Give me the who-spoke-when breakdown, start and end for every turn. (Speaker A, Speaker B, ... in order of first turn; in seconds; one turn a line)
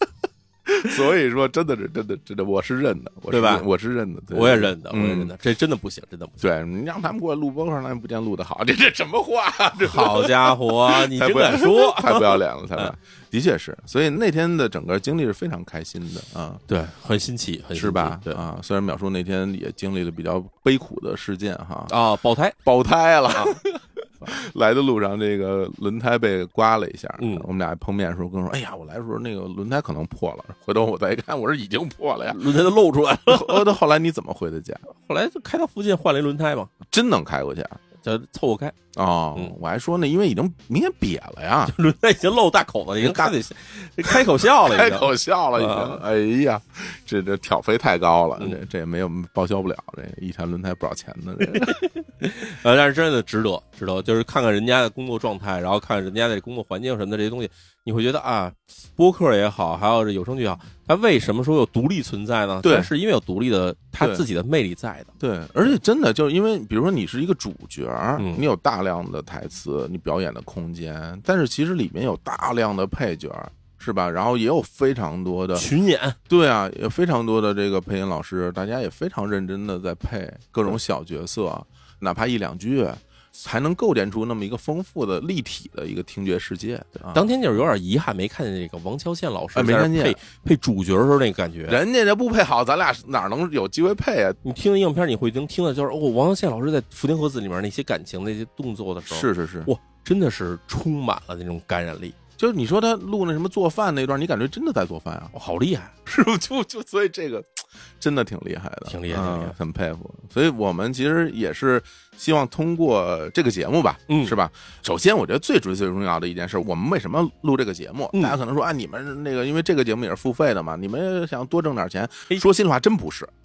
Speaker A: 0.7-5.3
Speaker B: 3.3-3.7
Speaker B: 4.3-6.4
Speaker A: 6.4-16.6
Speaker B: 9.8-12.9
Speaker B: 16.7-18.4
Speaker A: 17.8-21.9
Speaker B: 21.9-22.6
Speaker A: 22.6-32.4
Speaker B: 23.3-23.6
Speaker B: 27.2-27.4
Speaker B: 32.3-33.7
Speaker A: 33.3-34.9
Speaker B: 34.9-36.7
Speaker A: 36.9-37.8
Speaker B: 38.0-38.8
Speaker A: 39.0-41.8
Speaker B: 41.7-46.0
Speaker A: 43.0-43.4
Speaker A: 44.0-51.8
Speaker B: 51.5-65.1
Speaker A: 62.6-62.9
Speaker A: 64.0-64.2
Speaker A: 65.2-75.7
Speaker B: 68.2-68.4
Speaker B: 75.5-76.2
Speaker A: 76.3-87.3
Speaker B: 87.1-91.8
Speaker A: 89.5-90.2
Speaker A: 91.7-94.4
Speaker B: 94.4-102.2
Speaker A: 99.1-99.7
Speaker A: 102.4-105.3
Speaker B: 105.3-105.9
Speaker A: 106.1-123.3
Speaker B: 108.9-109.5
Speaker B: 114.1-114.3